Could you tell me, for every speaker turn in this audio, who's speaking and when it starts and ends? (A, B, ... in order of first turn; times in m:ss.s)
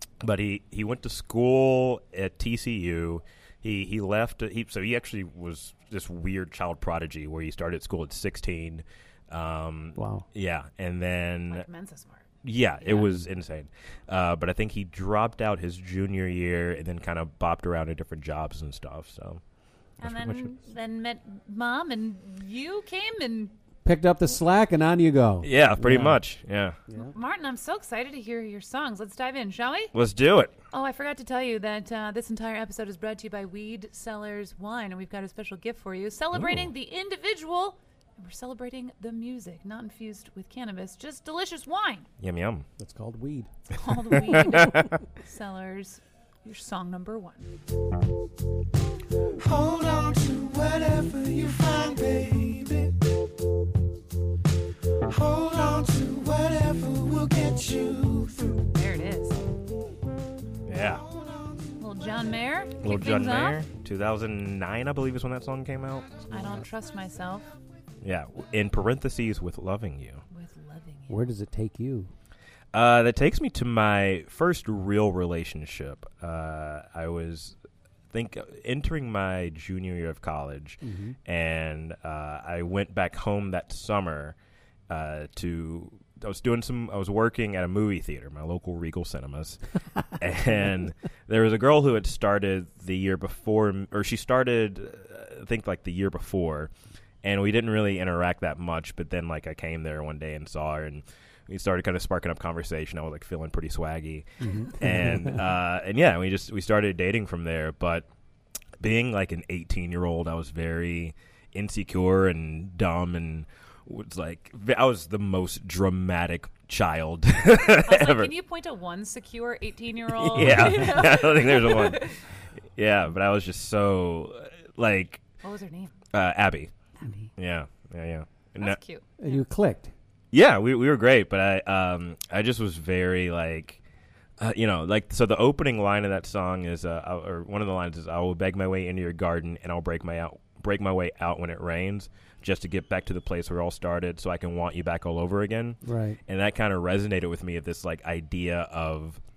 0:00.2-0:11.7 A
0:10.0-0:10.2 B
0:11.5-0:12.3 C
0:12.4-0:19.4 A
0:12.8-0:13.1 C
0:20.0-0:23.5 C
0:20.0-0:20.5 A
0:23.8-0:26.2 B
0:25.4-0:26.8 A
0:26.9-0:27.1 B
0:27.0-0:29.9 C
0:29.9-0:30.5 A
0:30.7-0:42.1 C
0:36.3-0:36.7 A
0:42.2-0:42.6 A
0:42.8-0:43.5 B
0:43.7-0:47.5 C
0:44.1-0:44.9 A
0:49.4-0:53.0 D
0:55.0-0:58.7 D
0:58.6-0:59.4 C
1:00.6-1:01.0 A
1:01.0-1:01.7 D
1:01.8-1:03.6 C
1:02.8-1:06.3 A
1:06.3-1:07.5 C
1:08.0-1:10.2 A
1:10.3-1:11.3 C
1:11.1-1:12.1 B
1:12.7-1:17.5 A
1:18.1-1:24.4 A
1:20.8-1:21.2 B
1:24.9-1:29.6 A
1:30.2-1:36.7 A
1:37.2-1:48.1 A
1:44.4-1:45.4 B
1:48.8-1:58.3 A
1:57.8-2:02.2 C
2:00.1-2:02.1 A
2:02.8-2:05.2 A
2:05.4-2:05.9 C
2:06.1-2:06.7 A
2:07.0-2:07.3 C
2:07.4-2:08.8 A
2:08.6-2:09.4 C
2:09.2-2:09.9 B
2:10.3-2:13.8 A
2:14.4-2:29.2 A
2:25.8-2:26.2 B